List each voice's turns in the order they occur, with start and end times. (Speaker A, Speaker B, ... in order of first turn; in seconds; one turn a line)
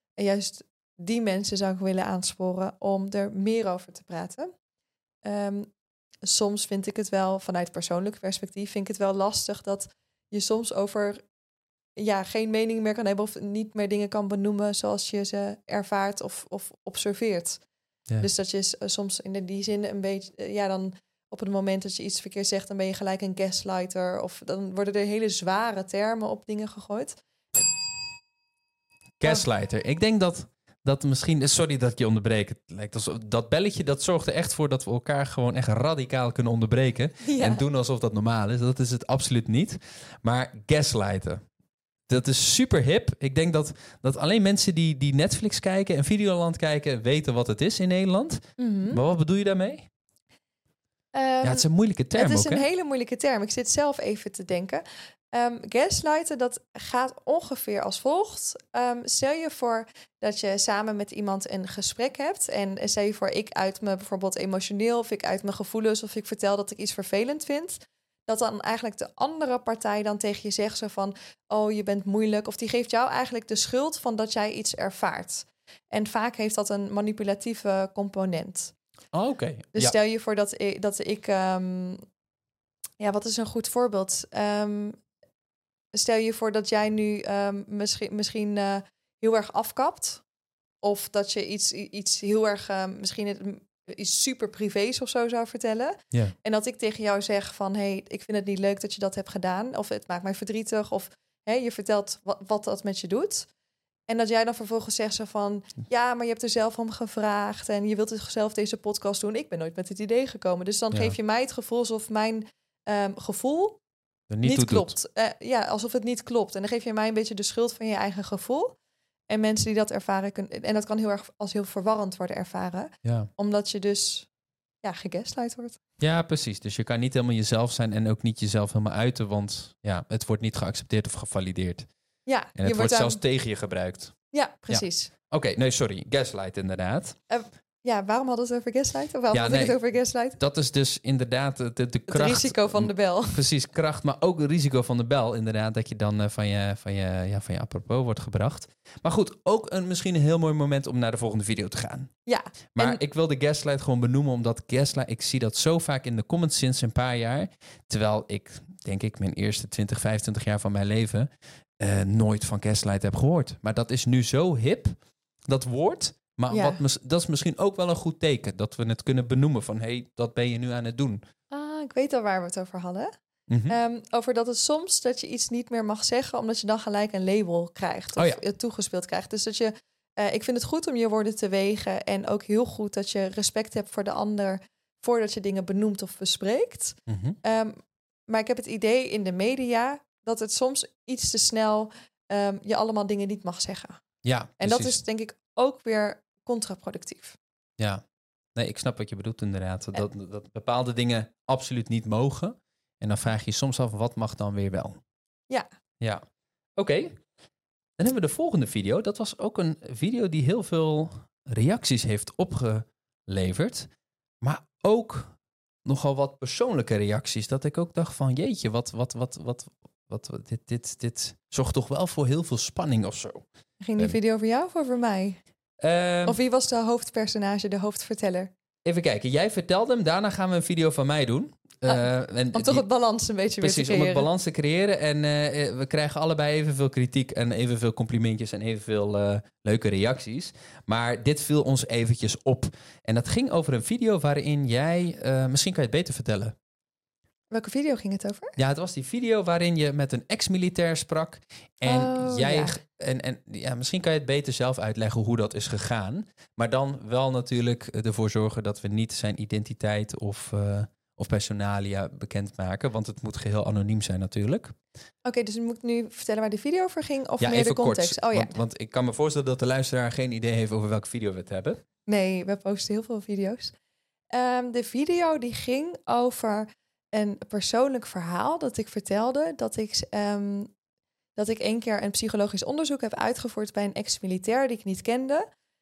Speaker A: 0.2-4.5
Speaker A: 5.2-5.7
Speaker A: 6.2-11.2
Speaker A: 12.0-17.6
Speaker A: 18.2-27.2
Speaker B: 29.2-41.4
Speaker A: 37.2-37.6
Speaker B: 42.1-49.9
Speaker A: 48.6-49.0
Speaker A: 51.1-78.7
Speaker B: 51.4-52.6
Speaker B: 79.1-80.0
Speaker A: 79.7-82.0
Speaker A: 83.0-85.0
Speaker A: 85.9-90.2
Speaker A: 90.8-103.5
Speaker A: 104.1-113.8
Speaker B: 114.3-115.0
Speaker A: 114.4-118.8
Speaker A: 119.3-124.3
Speaker B: 123.0-123.3
Speaker A: 124.8-125.8
Speaker B: 126.0-131.9
Speaker A: 132.3-133.2
Speaker B: 132.6-134.2
Speaker A: 134.3-135.1
Speaker B: 134.7-137.2
Speaker A: 137.3-140.4
Speaker B: 139.3-139.8
Speaker B: 140.4-152.1
Speaker A: 142.1-143.4
Speaker A: 152.3-153.0
Speaker B: 152.8-165.0
Speaker B: 165.5-171.2
Speaker A: 166.5-166.8
Speaker A: 171.5-173.1
Speaker B: 173.5-173.8
Speaker A: 173.7-187.8
Speaker B: 187.1-187.4
Speaker A: 188.3-194.0
Speaker B: 194.2-195.0
Speaker A: 194.6-197.4
Speaker B: 198.6-205.0
Speaker B: 206.8-207.2
Speaker B: 208.0-213.9
Speaker B: 214.4-215.3
Speaker B: 215.9-223.4
Speaker A: 223.8-225.4
Speaker B: 225.8-226.4
Speaker A: 226.3-228.5
Speaker B: 228.8-232.8
Speaker A: 231.9-234.3
Speaker B: 233.6-246.5
Speaker A: 247.5-248.6
Speaker B: 248.6-264.8
Speaker A: 251.8-252.7
Speaker A: 265.2-268.6
Speaker B: 267.4-271.8
Speaker A: 272.1-273.7
Speaker A: 274.3-280.7
Speaker A: 281.4-285.4